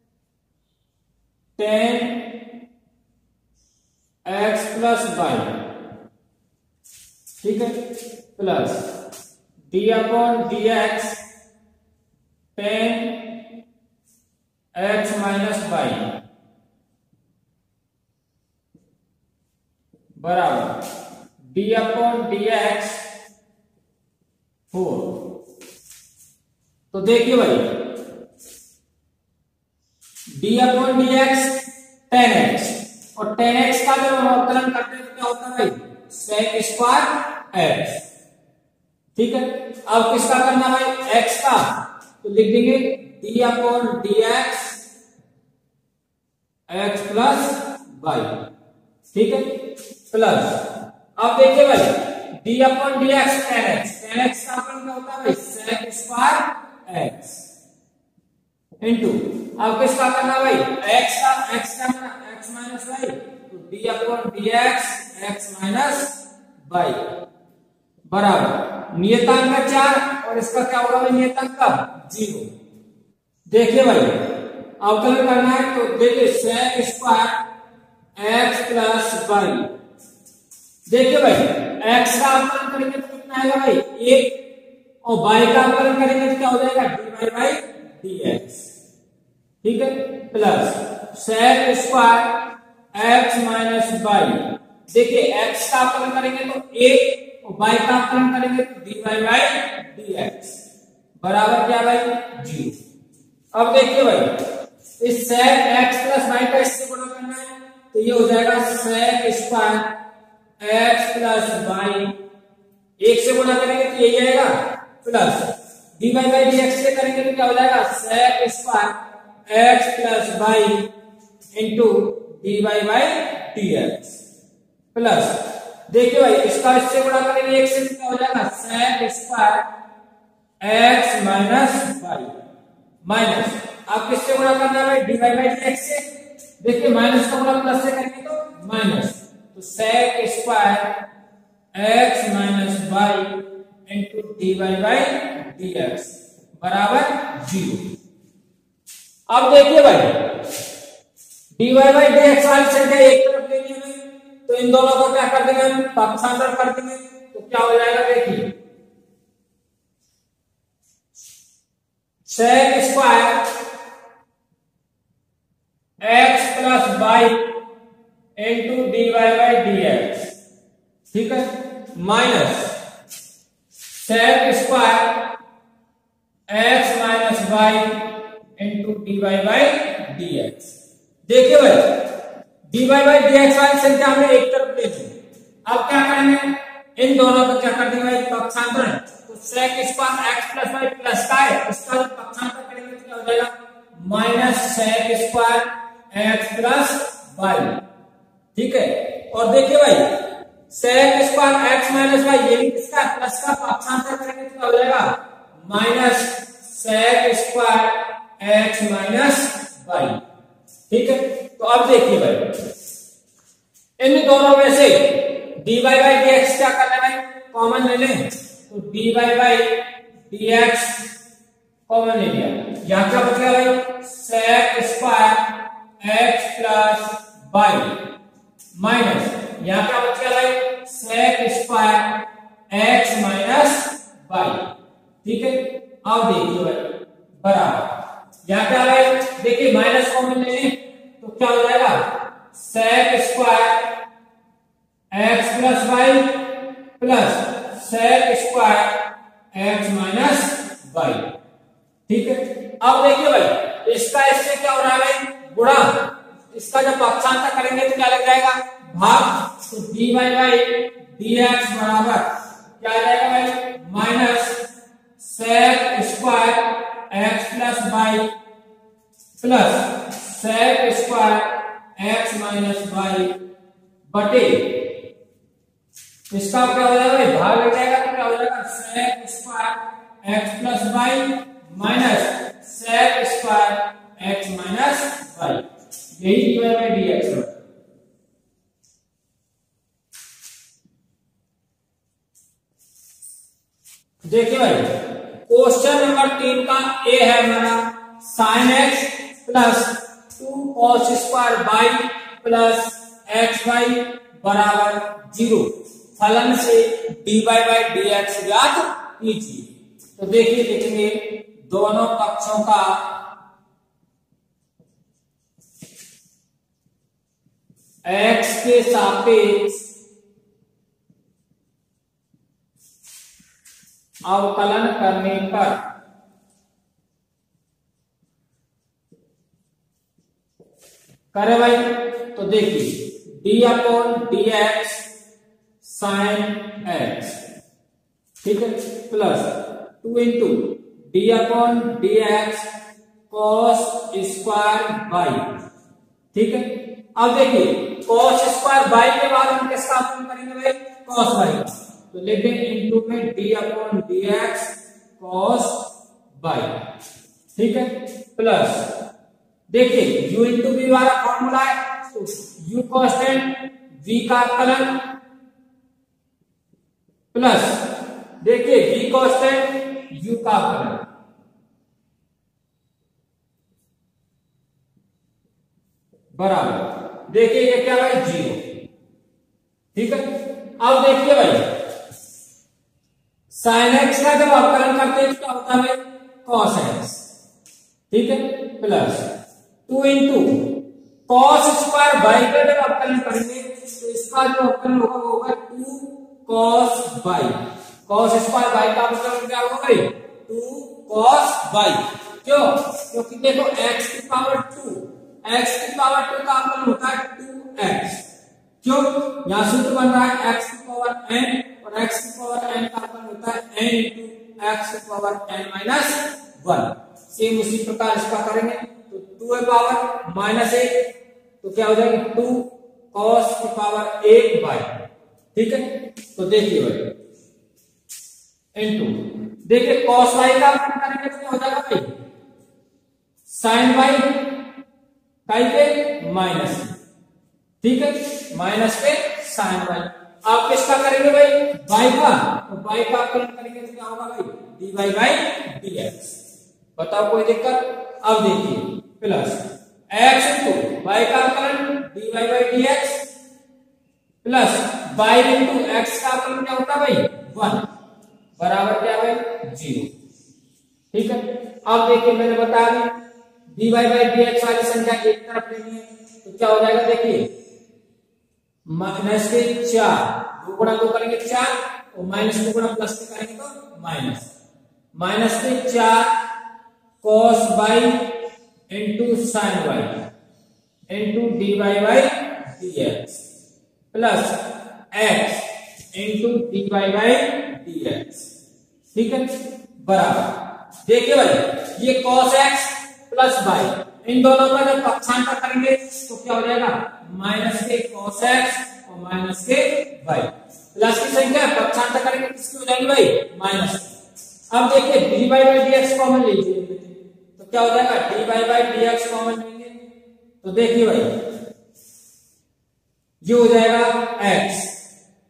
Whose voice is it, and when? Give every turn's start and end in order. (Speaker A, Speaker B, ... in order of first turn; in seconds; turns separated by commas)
Speaker A: 1.6-2.4, Speaker A: 4.2-5.6, Speaker A: 7.4-8.9, Speaker A: 9.7-11.2, Speaker A: 12.6-13.4, Speaker A: 14.7-16.1, Speaker A: 20.2-20.8, Speaker A: 21.5-23.0, Speaker A: 24.7-25.3, Speaker A: 26.9-28.0, Speaker A: 30.4-38.0, Speaker A: 39.1-44.8, Speaker A: 46.7-48.4, Speaker A: 49.1-50.6, Speaker A: 51.2-57.5, Speaker A: 58.8-67.0, Speaker A: 68.1-72.5, Speaker A: 73.5-77.4, Speaker A: 78.2-79.7, Speaker A: 80.9-84.4, Speaker A: 85.0-88.7, Speaker A: 89.6-92.4, Speaker A: 92.9-100.6, Speaker A: 101.2-102.8, Speaker A: 103.5-104.3, Speaker A: 105.0-109.9, Speaker A: 110.6-112.2, Speaker A: 113.0-119.0, Speaker A: 119.5-120.9, Speaker A: 121.5-124.2, Speaker A: 124.9-129.6, Speaker A: 130.6-132.3, Speaker A: 133.0-136.1, Speaker A: 136.6-141.0, Speaker A: 141.7-147.9, Speaker A: 149.3-150.5, Speaker A: 151.6-158.5, Speaker A: 162.2-163.5, Speaker A: 166.0-167.5, Speaker A: 168.4-170.3, Speaker A: 171.1-172.7, Speaker A: 173.9-175.3, Speaker A: 176.5-180.7, Speaker A: 181.3-182.1, Speaker A: 182.7-197.8, Speaker A: 198.5-200.1, Speaker A: 200.7-210.2, Speaker A: 210.9-212.5, Speaker A: 214.0-221.1, Speaker A: 221.9-228.0, Speaker A: 228.8-234.7, Speaker A: 235.2-243.9, Speaker A: 245.1-249.0, Speaker A: 249.5-251.3, Speaker A: 252.1-264.6, Speaker A: 265.2-268.3, Speaker A: 269.4-273.3, Speaker A: 274.1-275.0, Speaker A: 276.3-285.6, Speaker A: 286.1-287.6, Speaker A: 294.2-313.2, Speaker A: 318.0-319.8, Speaker A: 324.3-325.8, Speaker A: 331.3-335.1, Speaker A: 335.8-337.4, Speaker A: 338.4-342.7, Speaker A: 343.3-345.6, Speaker A: 346.3-356.7, Speaker A: 357.6-358.9, Speaker A: 359.7-365.1, Speaker A: 367.3-371.0, Speaker A: 376.3-378.6, Speaker A: 379.9-380.3, Speaker A: 380.8-381.6, Speaker A: 383.5-387.2, Speaker A: 388.1-389.3, Speaker A: 389.9-408.3, Speaker A: 408.8-420.9, Speaker A: 421.6-425.0, Speaker A: 425.5-427.1, Speaker A: 428.8-432.1, Speaker A: 433.5-434.5, Speaker A: 435.5-436.9, Speaker A: 437.8-446.4, Speaker A: 446.9-453.2, Speaker A: 454.4-457.9, Speaker A: 458.6-460.1, Speaker A: 461.1-463.1, Speaker A: 463.7-467.5, Speaker A: 468.9-474.5, Speaker A: 475.1-476.3, Speaker A: 477.2-478.3, Speaker A: 478.9-480.2, Speaker A: 481.1-483.4, Speaker A: 484.1-484.6, Speaker A: 485.1-488.5, Speaker A: 489.1-504.1, Speaker A: 504.7-509.9, Speaker A: 510.6-511.4, Speaker A: 513.4-515.0